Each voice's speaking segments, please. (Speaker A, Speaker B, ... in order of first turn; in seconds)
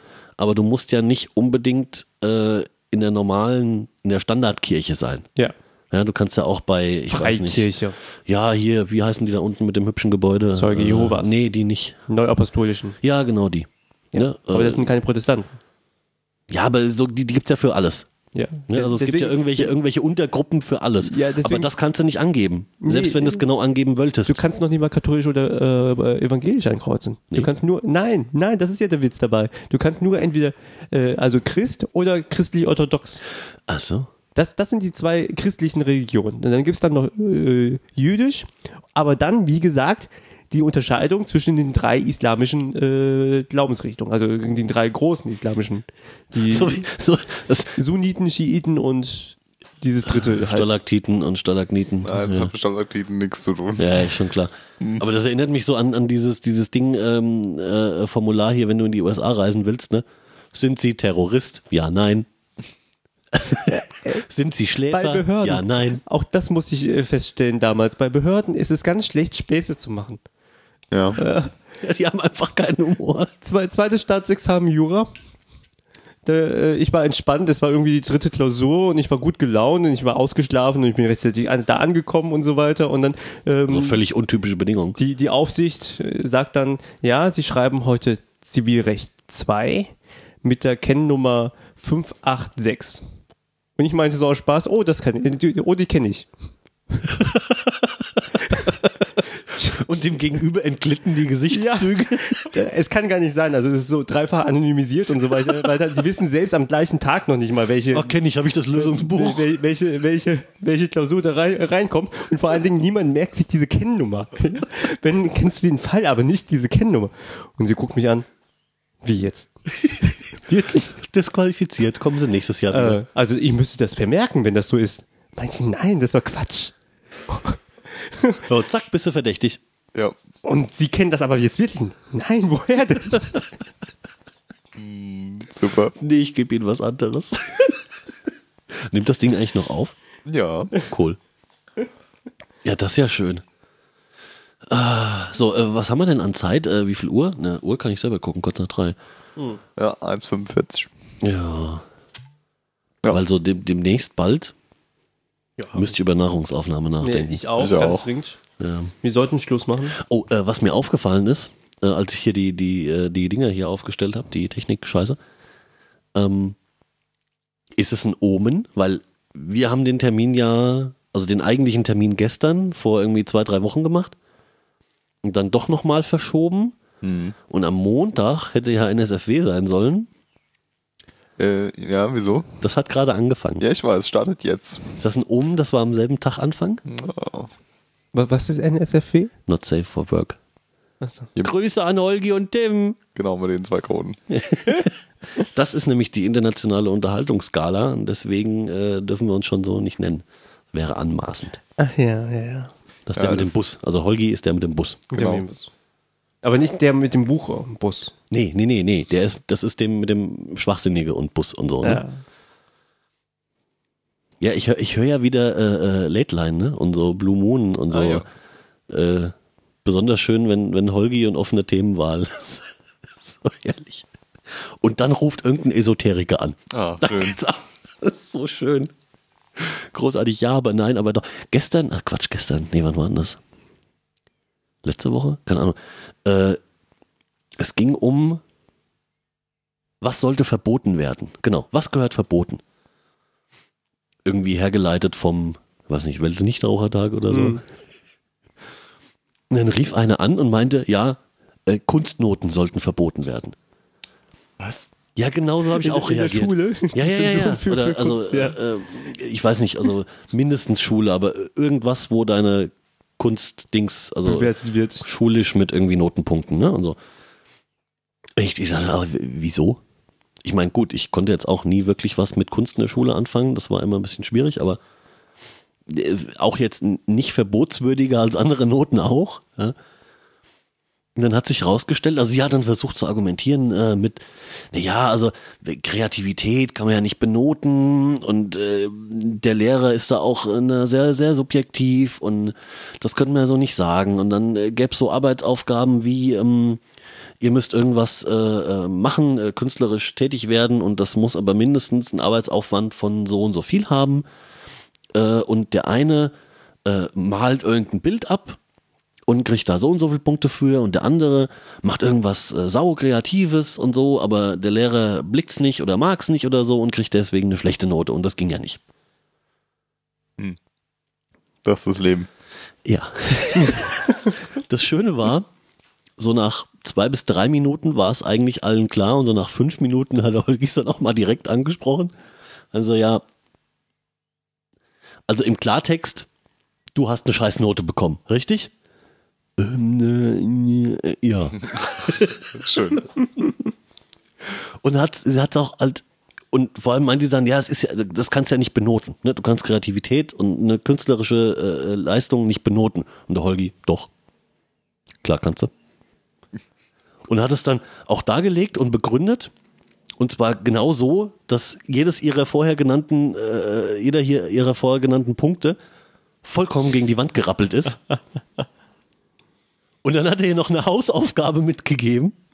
Speaker A: 0.4-5.3, 5.9-7.7, 8.3-12.0, 13.0-14.9, 16.5-18.1, 18.7-24.4, 33.7-34.1, 46.5-47.8, 50.1-52.5, 53.8-62.3, 63.3-66.0, 71.8-73.3, 83.7-85.0, 97.2-98.9, 99.6-102.5, 107.9-109.5, 120.9-123.0, 128.5-129.6, 136.0-137.8, 138.7-139.9, 140.8-141.2, 142.6-143.4, 144.7-149.0, 151.2-151.8, 153.1-154.5, 155.7-157.5, 158.6-158.9, 160.0-165.2, 166.2-166.6, 167.8-174.2, 175.2-176.8, 177.5-180.1, 182.6-183.6, 185.0-186.8, 189.5-190.4, 191.4-193.0, 194.3-201.6, 203.1-205.4, 208.3-212.0, 214.4-218.3, 218.9-219.3, 219.8-222.7, 223.2-228.9, 229.6-233.4, 234.8-236.6, 237.6-238.4, 240.0-242.6, 244.3-247.6, 249.5-253.6, 255.2-264.5, 265.0-267.0, 268.4-269.8, 270.4-274.8, 275.9-279.8, 281.2-296.8, 297.4-304.2, 305.1-306.3, 306.9-308.6, 309.3-318.8, 322.9-325.5, 326.2-332.1, 332.7-333.2, 335.3-336.3, 336.9-338.7, 339.6-342.7, 344.4-354.1, 355.2-355.7, 357.3-359.5, 360.2-365.8, 366.4-368.0, 370.0-372.4
Speaker B: 7.1-8.0, 10.5-11.5, 12.1-13.0, 14.1-15.6, 18.3-19.7, 21.0-21.7, 22.8-23.4, 24.3-33.2, 34.4-46.8, 47.8-50.8, 63.7-64.2, 64.9-70.2, 71.2-71.5, 73.4-75.1, 76.2-84.0, 85.0-89.9, 90.4-93.0, 93.8-96.3, 99.6-99.9, 101.5-108.1, 108.7-118.3, 119.0-119.5, 120.5-121.0, 122.7-126.7, 127.3-128.4, 130.4-133.4, 155.6-155.9, 157.0-158.4, 159.0-160.0, 188.1-189.3, 191.0-191.3, 201.8-202.7, 205.1-205.7, 206.4-208.1, 211.8-212.2, 247.3-247.6, 255.8-258.6, 264.3-265.1
Speaker C: 52.0-54.1, 70.9-71.2, 134.8-135.9, 140.3-140.7, 149.8-150.9, 157.6-158.1, 177.0-177.4, 181.4-182.5, 183.6-185.0, 186.9-187.5, 193.2-194.2, 203.2-203.6, 217.9-218.3, 226.7-227.4, 254.6-254.9, 321.6-322.3, 342.6-343.0